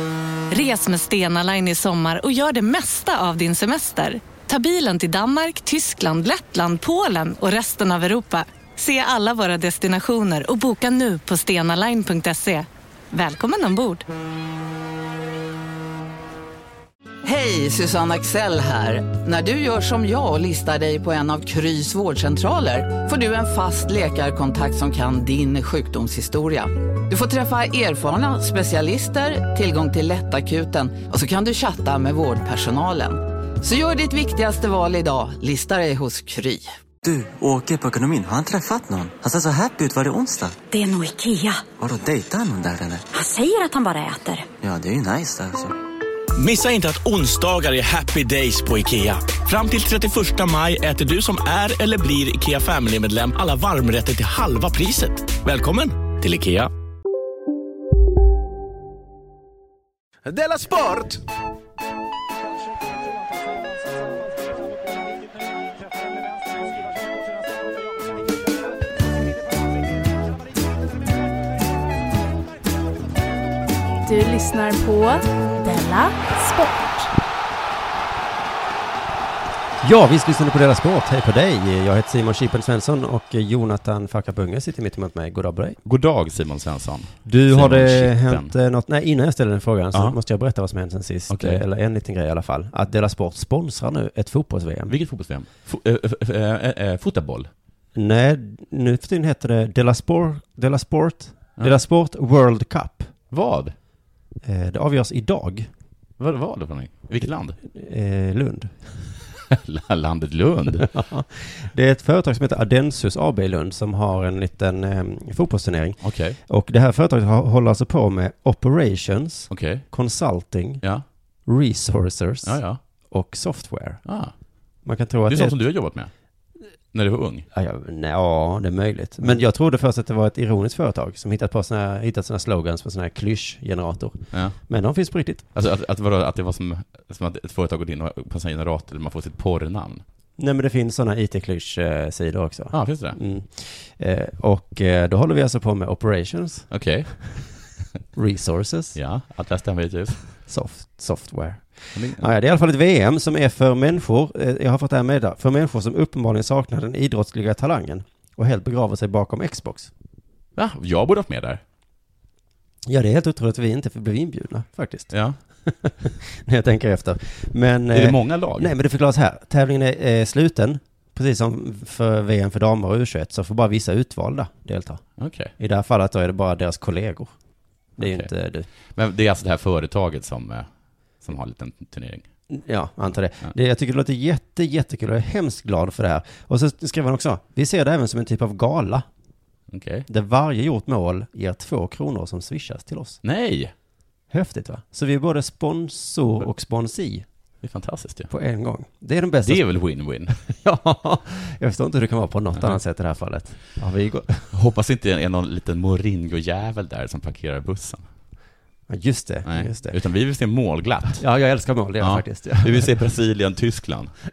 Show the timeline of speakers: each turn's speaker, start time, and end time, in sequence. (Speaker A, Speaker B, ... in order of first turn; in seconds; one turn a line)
Speaker A: 0.5-14.1
Speaker B: 17.2-36.7
Speaker C: 37.0-40.6
Speaker D: 40.7-41.6
Speaker C: 41.8-43.1
Speaker D: 43.1-44.5
Speaker C: 44.6-45.7
Speaker E: 46.4-56.7
Speaker E: 60.3-61.2
Speaker F: 74.0-77.1
Speaker G: 79.8-85.8
Speaker H: 85.8-88.5
Speaker G: 87.3-94.9
Speaker H: 91.3-91.6
Speaker H: 94.9-97.5
Speaker G: 98.0-103.1
Speaker H: 103.3-103.7
Speaker G: 104.4-105.7
Speaker H: 106.2-107.6
Speaker G: 107.6-109.0
Speaker H: 109.5-110.9
Speaker G: 110.8-120.8
Speaker H: 116.0-116.4
Speaker H: 119.5-119.8
Speaker G: 121.5-122.6
Speaker H: 122.4-122.8
Speaker G: 123.1-124.1
Speaker H: 124.1-124.3
Speaker G: 124.8-125.6
Speaker H: 125.3-126.1
Speaker H: 126.9-127.5
Speaker G: 127.5-135.5
Speaker H: 135.6-140.0
Speaker G: 140.4-146.7
Speaker H: 142.7-143.2
Speaker H: 146.7-147.4
Speaker G: 148.2-149.0
Speaker H: 148.9-150.2
Speaker G: 150.5-159.9
Speaker H: 151.9-152.3
Speaker H: 160.6-161.6
Speaker G: 162.9-165.1
Speaker H: 165.1-165.4
Speaker G: 165.7-175.0
Speaker H: 167.9-168.7
Speaker H: 175.2-175.5
Speaker G: 175.6-177.3
Speaker G: 178.0-178.7
Speaker H: 178.0-178.3
Speaker H: 178.9-180.7
Speaker H: 181.2-182.2
Speaker G: 182.5-189.1
Speaker H: 189.7-190.1
Speaker G: 190.1-193.2
Speaker H: 193.2-193.7
Speaker G: 194.3-197.3
Speaker H: 197.6-198.3
Speaker G: 198.3-199.6
Speaker H: 199.4-200.4
Speaker G: 200.5-204.5
Speaker H: 204.5-208.1
Speaker G: 208.9-210.0
Speaker H: 209.5-211.2
Speaker G: 211.2-212.9
Speaker H: 212.0-214.1